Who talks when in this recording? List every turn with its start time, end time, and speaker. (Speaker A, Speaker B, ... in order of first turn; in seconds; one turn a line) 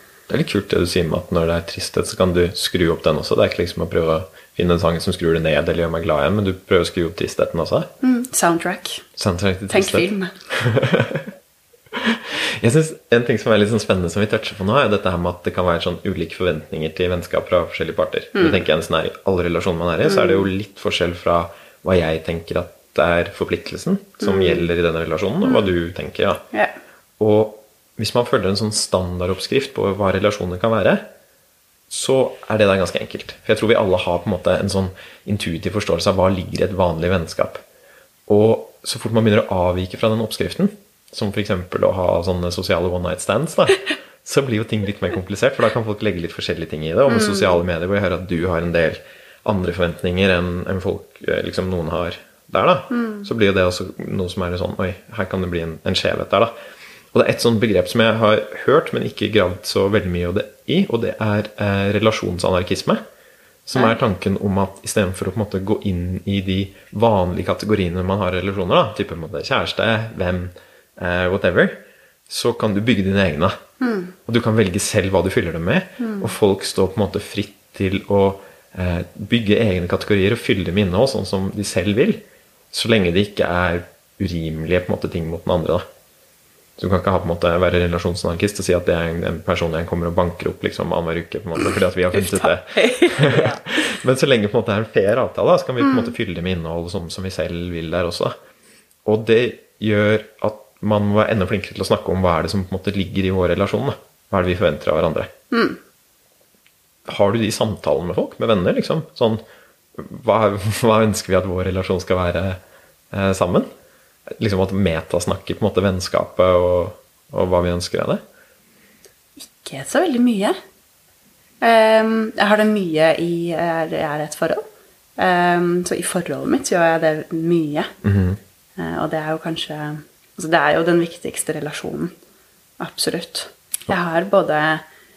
Speaker A: 0.3-7.9
Speaker B: 8.0-9.1
Speaker A: 9.2-11.3
Speaker B: 9.7-10.3
Speaker A: 11.9-26.4
Speaker B: 18.3-18.6
Speaker B: 20.0-20.5
Speaker B: 24.2-24.7
Speaker A: 27.2-31.1
Speaker A: 31.9-37.6
Speaker A: 38.3-56.5
Speaker B: 47.1-47.6
Speaker B: 52.9-53.3
Speaker A: 57.1-63.0
Speaker A: 63.6-73.6
Speaker B: 73.8-74.1
Speaker A: 74.2-85.8
Speaker B: 76.0-76.3
Speaker A: 86.8-98.3
Speaker B: 91.7-93.6
Speaker B: 95.8-96.1
Speaker A: 99.0-105.3
Speaker B: 105.5-105.8
Speaker A: 107.0-109.4
Speaker A: 109.9-112.6
Speaker A: 113.1-113.7
Speaker A: 114.3-118.2
Speaker B: 119.4-120.5
Speaker B: 121.6-124.6
Speaker B: 125.2-127.9
Speaker A: 128.0-128.4
Speaker B: 128.8-132.1
Speaker B: 132.8-134.8